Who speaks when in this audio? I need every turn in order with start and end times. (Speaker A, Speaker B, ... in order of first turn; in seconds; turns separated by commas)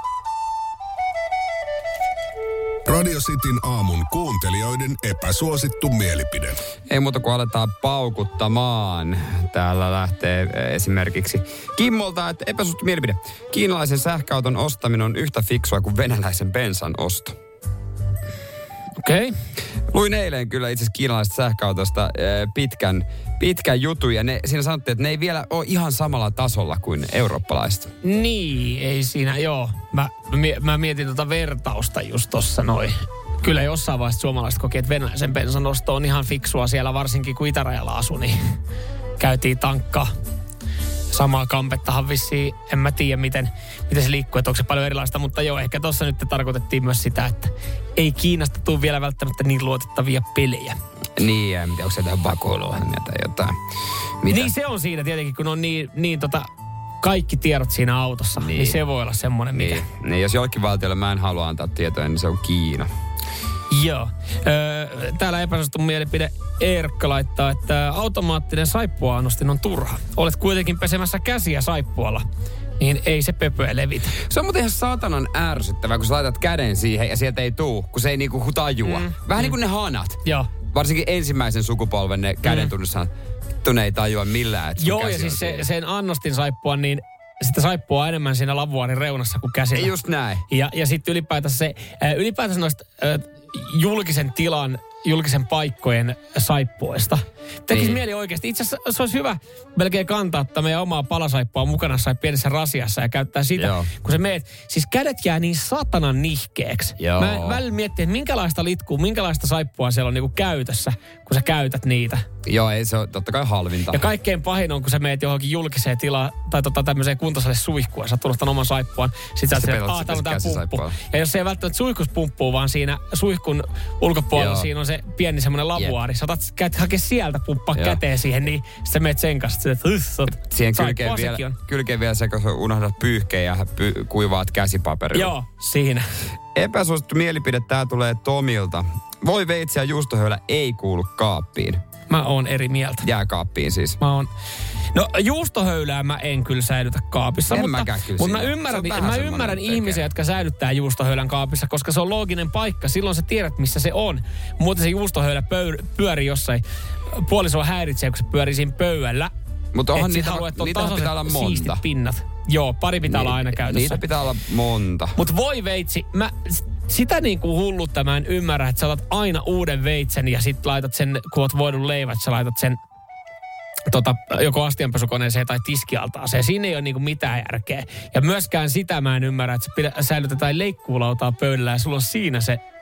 Speaker A: 2.9-6.6, Speaker B: 6.9-17.4, Speaker C: 19.0-19.4, Speaker B: 19.9-27.9, Speaker C: 28.0-38.6, Speaker C: 39.2-40.1, Speaker C: 41.1-50.8, Speaker B: 51.2-53.6, Speaker B: 54.2-54.5, Speaker C: 54.3-56.5, Speaker C: 57.0-59.9, Speaker B: 58.4-58.8, Speaker B: 59.5-62.9, Speaker C: 63.7-72.2, Speaker C: 72.8-74.2, Speaker B: 74.1-80.2, Speaker C: 78.8-79.5, Speaker C: 80.2-80.5, Speaker B: 80.7-83.1, Speaker C: 82.5-82.7, Speaker B: 83.6-85.7, Speaker C: 84.8-89.9, Speaker B: 89.8-90.5, Speaker C: 90.5-112.2, Speaker B: 97.7-98.0, Speaker B: 103.6-103.9, Speaker B: 107.0-107.6, Speaker B: 112.5-114.1, Speaker C: 113.9-131.6, Speaker B: 119.5-121.0, Speaker B: 124.3-124.7, Speaker B: 127.8-128.0, Speaker B: 130.4-135.3, Speaker C: 135.1-136.2, Speaker B: 136.6-141.8, Speaker C: 142.1-143.1, Speaker B: 143.0-144.0, Speaker C: 144.0-144.3, Speaker C: 144.9-159.3, Speaker B: 147.5-150.1, Speaker B: 159.7-161.8, Speaker C: 159.9-164.1, Speaker B: 163.0-165.2, Speaker C: 165.2-172.8, Speaker C: 173.9-182.6